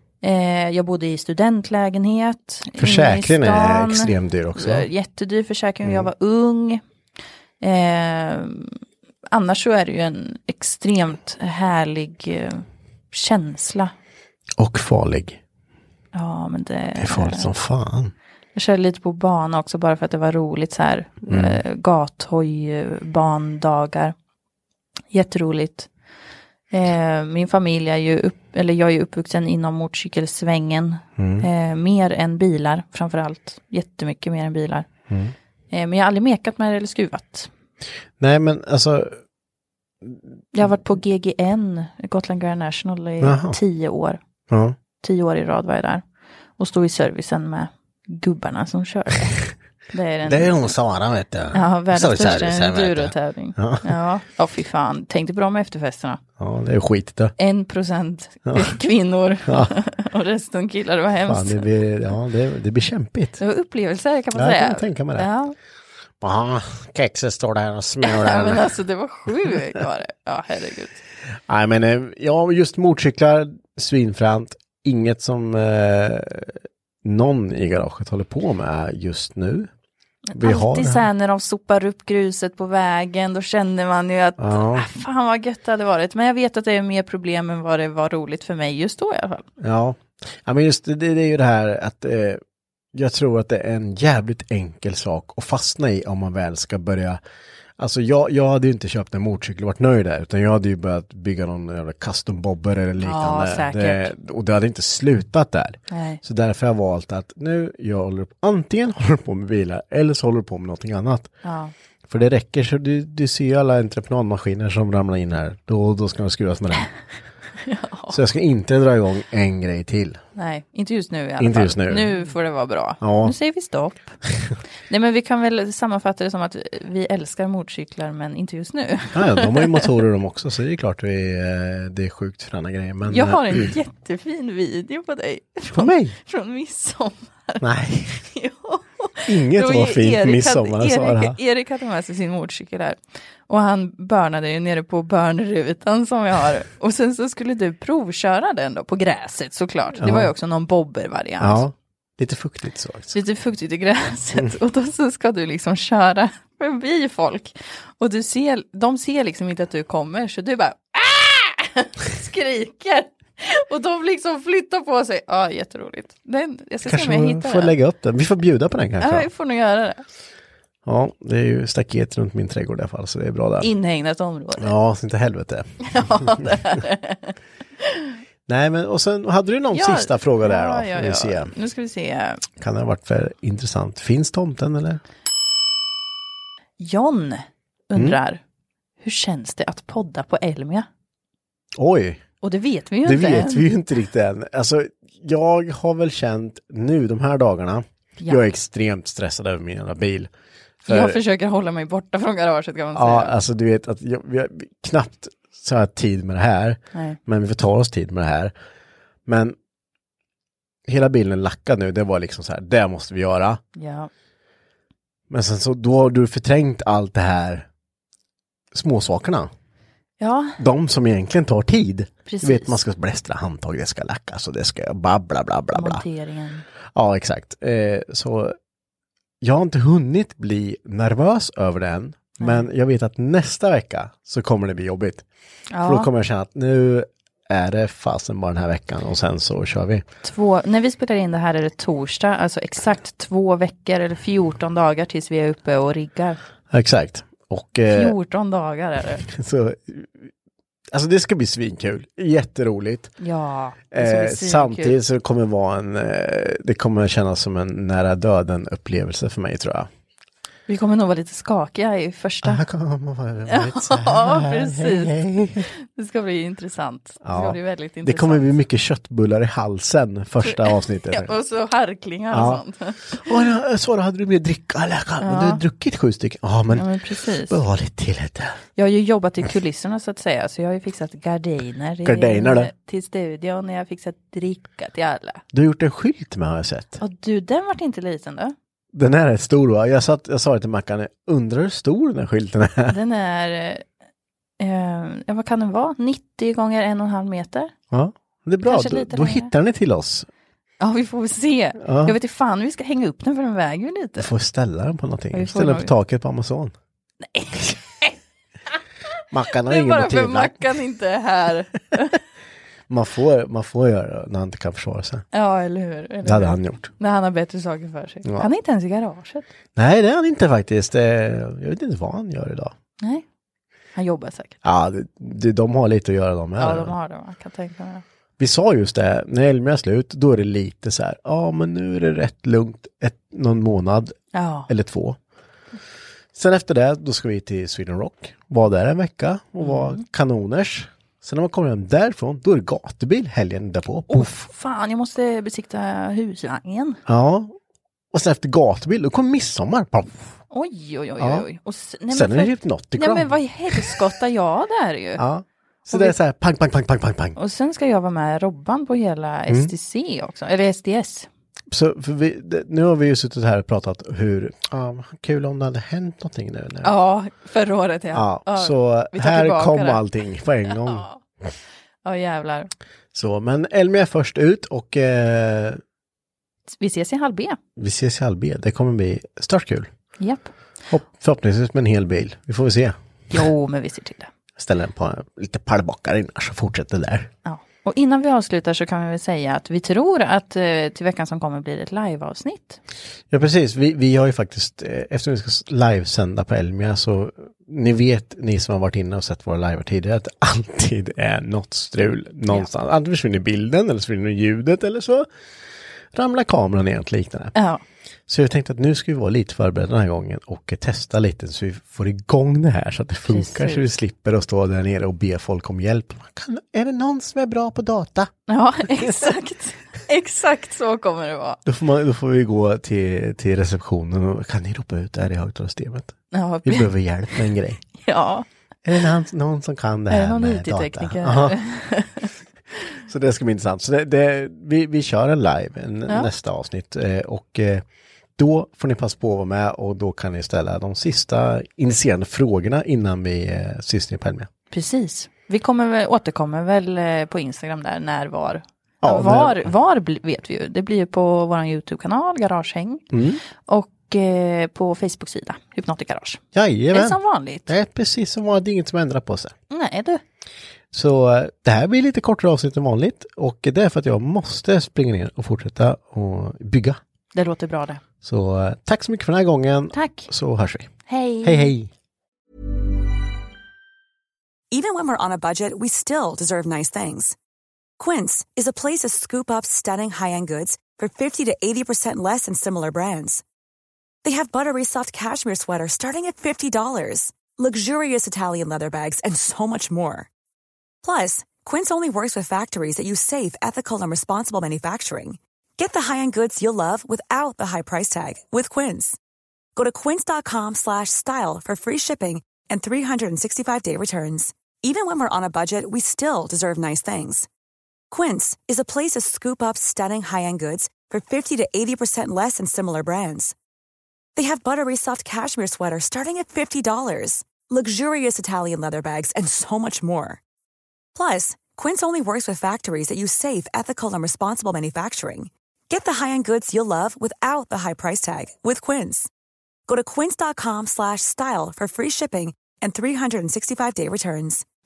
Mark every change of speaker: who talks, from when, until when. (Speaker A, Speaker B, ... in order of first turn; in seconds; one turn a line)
Speaker A: 0.2-6.8
Speaker B: 2.8-4.9
Speaker A: 7.6-8.7
Speaker A: 9.3-13.9
Speaker B: 14.6-15.4
Speaker A: 16.1-17.5
Speaker B: 17.0-18.1
Speaker A: 18.6-24.1
Speaker B: 21.3-21.6
Speaker A: 25.1-25.9
Speaker A: 26.7-34.9
Speaker B: 31.2-31.5
Speaker B: 35.1-35.3
Speaker A: 35.7-37.5
Speaker B: 38.2-39.2
Speaker A: 40.5-44.2
Speaker B: 43.2-43.6
Speaker B: 44.5-44.8
Speaker A: 45.0-46.0
Speaker A: 46.6-49.4
Speaker A: 49.9-50.7
Speaker B: 50.3-53.9
Speaker A: 51.5-56.2
Speaker B: 56.4-57.3
Speaker A: 57.4-61.7
Speaker B: 61.3-63.4
Speaker A: 63.4-65.5
Speaker B: 64.3-65.3
Speaker B: 66.2-68.7
Speaker A: 68.0-71.0
Speaker B: 71.5-79.7
Speaker A: 80.3-89.5
Speaker B: 80.4-81.1
Speaker B: 84.4-84.9
Speaker B: 89.6-92.4
Speaker B: 92.9-97.2
Speaker B: 97.8-111.4
Speaker A: 103.0-104.1
Speaker A: 105.9-106.2
Speaker A: 111.4-111.7
Speaker B: 112.1-116.9
Speaker A: 117.7-118.2
Speaker B: 118.1-120.2
Speaker A: 120.3-124.1
Speaker B: 121.4-122.2
Speaker B: 123.0-123.3
Speaker A: 124.9-129.9
Speaker B: 129.2-133.7
Speaker A: 133.1-137.6
Speaker B: 135.7-136.2
Speaker B: 137.6-138.2
Speaker A: 138.2-151.7
Speaker B: 139.3-141.4
Speaker B: 150.0-150.3
Speaker B: 151.4-153.2
Speaker A: 153.1-167.8
Speaker B: 166.9-169.3
Speaker A: 169.0-170.0
Speaker B: 170.8-173.7
Speaker A: 173.6-174.8
Speaker B: 174.6-176.6
Speaker A: 175.8-178.1
Speaker B: 178.5-181.5
Speaker A: 179.7-182.5
Speaker B: 182.6-185.0
Speaker A: 186.8-188.4
Speaker A: 189.0-190.9
Speaker B: 191.8-192.2
Speaker A: 192.4-193.7
Speaker B: 193.0-200.3
Speaker A: 198.2-198.4
Speaker B: 200.8-201.2
Speaker A: 200.9-203.4
Speaker B: 202.9-208.5
Speaker A: 206.9-207.2
Speaker B: 209.3-209.6
Speaker B: 210.9-213.6
Speaker A: 213.7-214.1
Speaker B: 215.3-217.7
Speaker B: 218.7-219.5
Speaker A: 220.2-220.6
Speaker B: 220.6-226.1
Speaker A: 222.2-222.8
Speaker A: 225.7-226.7
Speaker B: 226.9-228.6
Speaker B: 229.4-235.3
Speaker A: 232.4-232.7
Speaker A: 235.7-236.1
Speaker B: 235.8-240.1
Speaker A: 240.2-246.4
Speaker B: 246.7-248.2
Speaker A: 247.9-249.2
Speaker B: 249.2-250.3
Speaker B: 250.9-253.2
Speaker A: 253.2-255.0
Speaker B: 253.9-259.9
Speaker A: 260.7-262.6
Speaker B: 262.4-265.7
Speaker A: 263.5-265.2
Speaker A: 265.7-268.5
Speaker B: 267.2-271.3
Speaker A: 270.4-273.5
Speaker B: 272.3-272.6
Speaker B: 273.1-276.9
Speaker A: 275.2-275.6
Speaker A: 276.7-277.6
Speaker B: 277.5-278.6
Speaker A: 278.8-285.4
Speaker B: 282.1-282.7
Speaker B: 285.5-287.0
Speaker A: 287.0-288.6
Speaker B: 288.9-293.0
Speaker A: 292.9-293.9
Speaker A: 294.6-297.7
Speaker B: 297.9-300.3
Speaker A: 298.6-299.5
Speaker A: 300.8-304.3
Speaker B: 301.8-302.2
Speaker B: 304.2-306.7
Speaker A: 305.3-305.9
Speaker A: 307.2-308.1
Speaker B: 309.3-310.7
Speaker A: 309.6-312.2
Speaker B: 312.9-315.3
Speaker A: 315.3-319.5
Speaker B: 316.2-316.9
Speaker B: 319.8-322.8
Speaker A: 323.0-323.2
Speaker A: 323.9-324.6
Speaker B: 324.6-327.0
Speaker A: 326.6-328.0
Speaker B: 328.4-335.2
Speaker A: 334.3-334.7
Speaker B: 336.3-344.3
Speaker A: 339.6-340.0
Speaker A: 344.1-347.0
Speaker B: 347.1-347.6
Speaker B: 348.1-350.2
Speaker A: 350.5-355.2
Speaker B: 351.2-351.4
Speaker B: 352.1-354.1
Speaker B: 355.2-357.4
Speaker A: 355.9-356.2
Speaker A: 357.4-361.3
Speaker B: 361.7-367.0
Speaker A: 366.8-370.1
Speaker B: 368.1-371.1
Speaker A: 370.7-371.2
Speaker A: 372.0-372.7
Speaker B: 373.1-375.8
Speaker A: 376.7-377.6
Speaker B: 377.8-379.9
Speaker A: 380.2-380.5
Speaker B: 380.9-383.0
Speaker A: 383.3-384.3
Speaker B: 384.6-387.3
Speaker A: 387.4-392.8
Speaker B: 393.3-405.3
Speaker B: 406.1-407.6
Speaker A: 407.6-407.8
Speaker B: 408.3-418.3
Speaker A: 413.3-413.9
Speaker A: 418.5-421.6
Speaker B: 418.9-419.4
Speaker B: 421.6-427.8
Speaker A: 426.3-428.5
Speaker B: 428.9-431.6
Speaker A: 430.1-432.3
Speaker B: 433.1-437.9
Speaker B: 438.4-444.5
Speaker A: 444.7-453.1
Speaker B: 449.0-449.7
Speaker B: 453.1-453.4
Speaker A: 453.7-457.7
Speaker B: 456.5-459.6
Speaker A: 459.7-460.2
Speaker B: 460.9-467.0
Speaker A: 467.3-468.0
Speaker B: 468.2-471.9
Speaker A: 469.9-470.3
Speaker A: 471.1-471.7
Speaker C: 474.7-477.4
Speaker C: 478.0-483.4
Speaker C: 484.2-490.3
Speaker C: 491.0-499.2
Speaker C: 499.8-507.5
Speaker C: 508.1-513.5
Speaker C: 514.4-520.4
Speaker C: 521.1-529.3
Speaker C: 529.9-534.6